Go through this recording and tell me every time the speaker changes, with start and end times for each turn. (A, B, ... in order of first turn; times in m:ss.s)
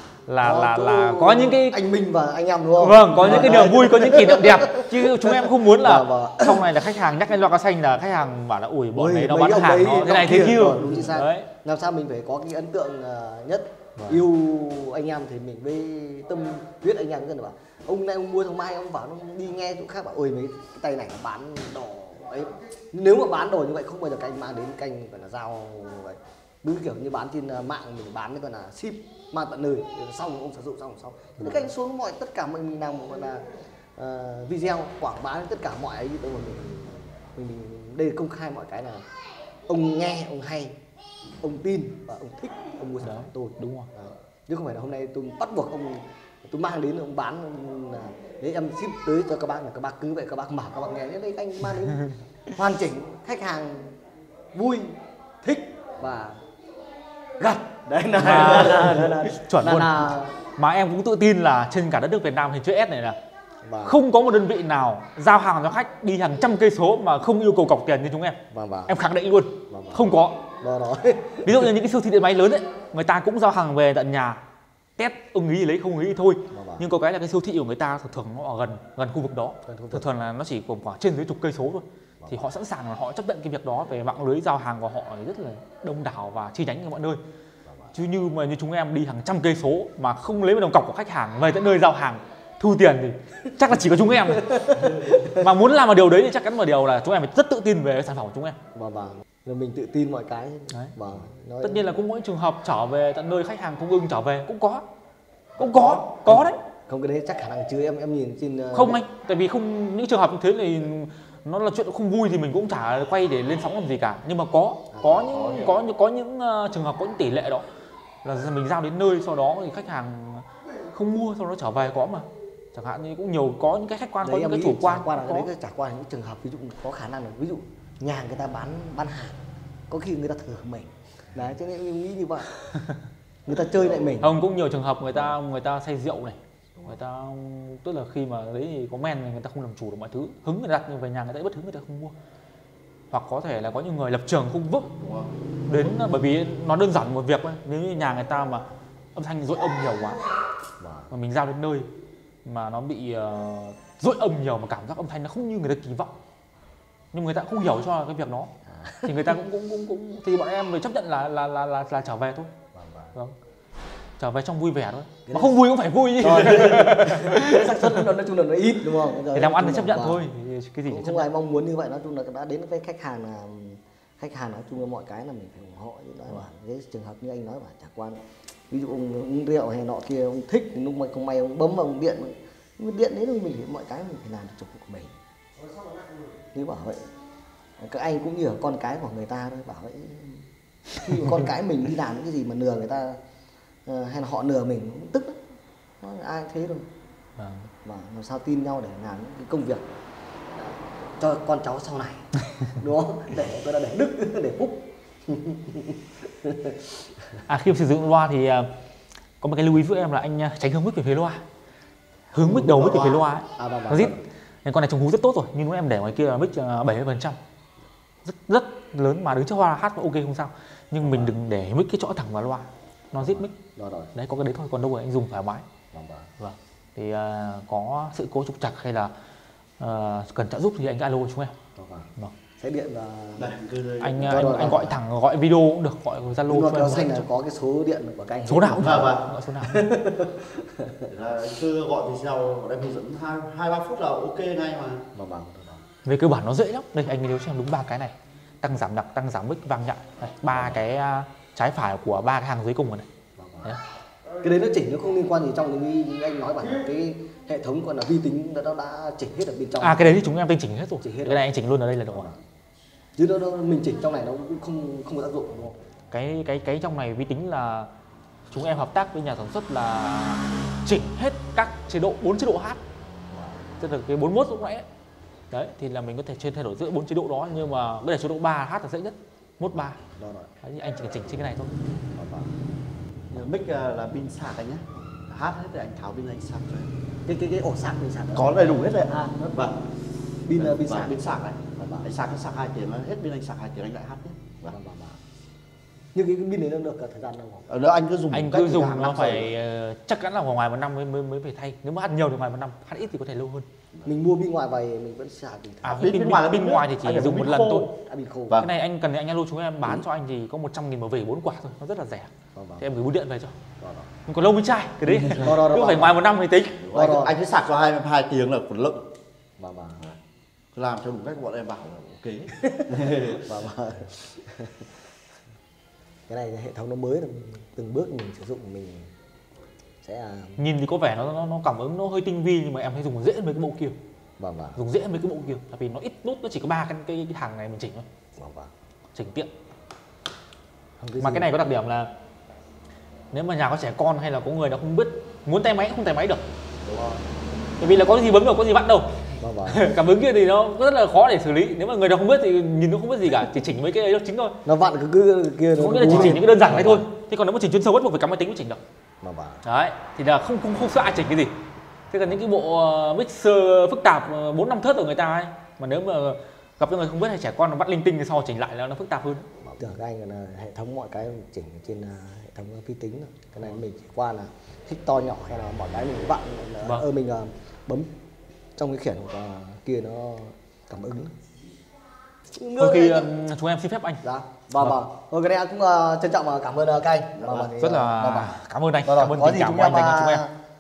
0:00.3-0:01.8 A
0:00.4-0:06.7 B
0:02.8-0:11.5 A
0:09.0-0:33.4 B
0:34.0-0:39.0 B
0:39.7-0:40.8 B
0:41.4-0:54.0 B
0:43.0-0:43.9 A
0:54.5-0:56.4 B
0:57.4-1:00.4 B
0:58.2-1:03.2 A
1:03.6-1:04.0 B
1:03.8-1:10.4 A
1:08.5-1:08.9 B
1:09.7-1:11.7 B
1:11.4-1:14.4 A
1:15.0-1:27.2 A
1:16.5-1:16.8 B
1:19.7-1:20.1 B
1:27.7-1:27.9 B
1:27.9-1:38.6 A
1:34.3-1:35.4 B
1:38.7-1:41.8 B
1:41.6-1:44.8 A
1:45.6-1:46.6 A
1:45.6-1:49.0 B
1:48.7-1:57.7 A
1:54.9-1:55.7 B
1:58.2-2:05.5 A
2:04.2-2:12.5 B
2:13.5-2:14.3 B
2:14.2-2:22.1 A
2:23.1-2:24.9 A
2:25.0-2:25.3 C
2:25.7-2:28.6 A
2:29.2-2:30.2 A
2:30.8-2:31.1 B
2:31.1-2:31.9 A
2:32.4-2:36.1 A
2:37.1-2:38.5 A
2:38.7-2:39.4 B
2:39.0-2:42.5 A
2:42.7-2:43.1 B
2:44.2-2:48.0 A
2:45.3-2:45.6 B
2:46.2-2:50.2 B
2:49.3-2:51.3 A
2:50.9-3:05.2 B
3:06.5-3:07.0 B
3:07.8-3:13.2 B
3:13.9-3:15.4 B
3:16.0-3:16.9 B
3:17.4-3:17.7 A
3:17.8-3:19.9 B
3:20.5-3:26.8 B
3:27.5-3:28.7 A
3:29.4-3:31.4 A
3:32.3-3:37.4 A
3:32.4-3:34.2 B
3:38.2-3:43.5 A
3:43.2-3:44.1 B
3:44.2-3:45.7 A
3:45.9-3:46.3 B
3:46.4-3:49.1 A
3:49.8-3:51.5 A
3:51.8-3:53.5 B
3:53.4-3:54.7 C
3:54.0-3:57.3 A
3:54.2-3:55.0 B
3:56.5-4:01.1 B
3:58.5-3:59.9 A
3:58.8-3:59.2 C
4:01.1-4:05.1 C
4:05.1-4:05.8 B
4:06.0-4:13.1 A
4:13.4-4:13.7 B
4:14.4-4:20.2 B
4:19.8-4:22.3 A
4:21.0-4:21.4 B
4:23.2-4:25.8 B
4:26.1-4:27.9 A
4:28.5-4:32.8 A
4:33.8-4:34.9 A
4:35.5-4:40.0 A
4:40.2-4:40.5 B
4:40.6-4:41.7 A
4:42.2-4:42.5 B
4:43.3-4:46.9 C
4:47.3-4:49.7 B
4:48.4-4:49.8 C
4:50.4-4:51.2 B
4:50.6-4:54.8 C
4:51.8-4:52.1 B
4:54.7-4:55.2 B
4:56.1-4:57.7 B
4:57.7-4:59.5 C
4:58.3-5:03.7 A
5:04.1-5:06.1 B
5:05.8-5:07.9 A
5:05.9-5:07.9 C
5:08.0-5:08.6 B
5:08.6-5:13.6 A
5:12.6-5:12.9 B
5:13.8-5:14.1 B
5:14.3-5:16.8 A
5:15.1-5:16.2 B
5:16.8-5:19.1 C
5:16.9-5:17.4 B
5:19.6-5:20.0 B
5:20.7-5:23.4 C
5:22.6-5:24.8 B
5:26.3-5:29.1 B
5:30.0-5:30.6 B
5:30.6-5:34.0 A
5:34.4-5:34.8 B
5:34.8-5:38.1 A
5:38.4-5:38.7 B
5:39.1-5:39.5 A
5:41.0-5:41.5 B
5:41.2-5:42.1 A
5:43.3-5:46.4 A
5:46.8-5:47.2 C
5:47.8-5:49.1 A
5:49.4-5:49.8 B
5:49.7-5:54.6 A
5:54.6-5:57.1 B
5:55.8-5:58.8 A
5:59.2-5:59.6 B
5:59.6-6:09.5 A
6:09.6-6:18.1 B
6:18.8-6:21.3 B
6:22.6-6:23.3 B
6:22.8-6:24.2 A
6:24.2-6:30.5 B
6:27.4-6:27.7 C
6:27.8-6:30.4 A